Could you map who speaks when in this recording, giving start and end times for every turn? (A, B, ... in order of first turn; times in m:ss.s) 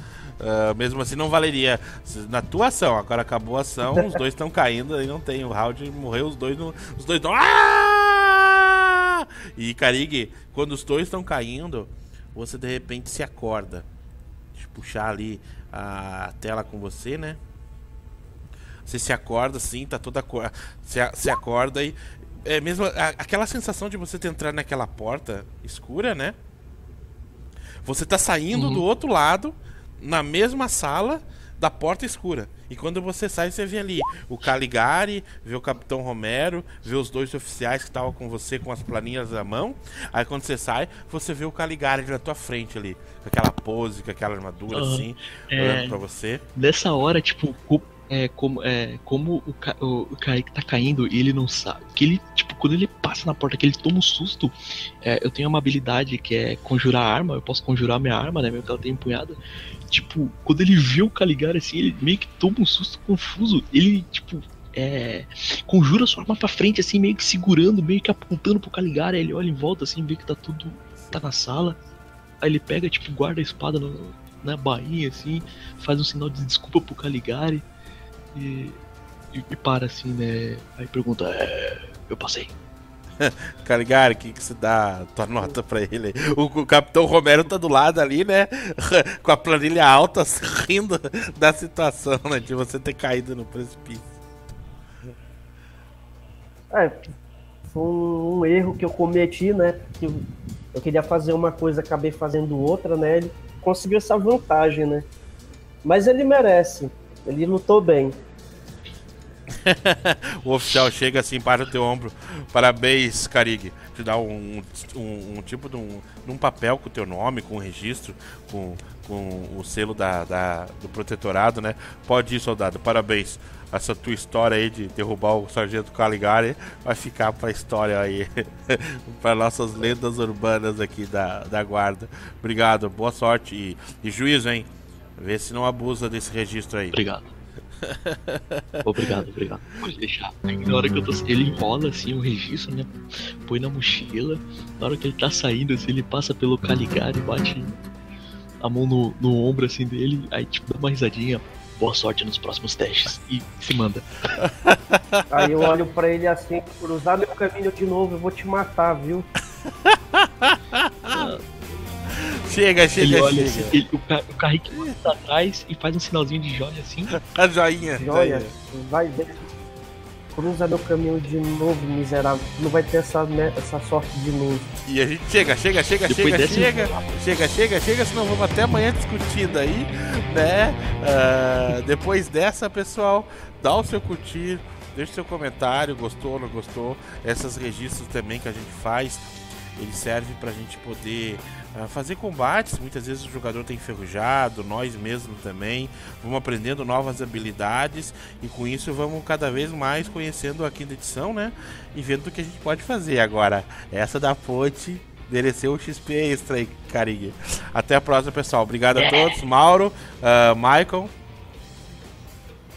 0:00.4-0:13.9 A
0:14.6-0:17.4 A
0:18.9-0:26.4 A
0:27.8-0:46.4 A
0:28.5-0:28.8 B
0:44.7-0:46.0 B
0:46.6-0:59.4 B
0:59.9-1:11.8 B
1:12.4-1:17.6 B
1:18.4-1:18.8 B
1:19.3-1:22.5 B
1:23.2-1:34.1 A
1:36.7-1:37.0 C
1:37.7-1:45.0 C
1:45.8-1:48.2 C
1:49.6-2:17.0 A
2:16.9-2:17.3 B
2:17.8-2:19.1 A
2:18.8-2:27.8 B
2:28.6-2:34.1 B
2:34.6-2:35.2 A
2:35.3-2:39.3 C
2:39.9-2:41.2 A
2:41.1-2:41.5 B
2:42.4-2:43.8 A
2:43.0-2:47.2 B
2:47.2-2:48.5 A
2:48.0-2:49.4 C
2:50.4-2:54.7 C
2:54.8-3:31.1 A
2:56.1-2:57.0 B
3:29.0-3:29.4 B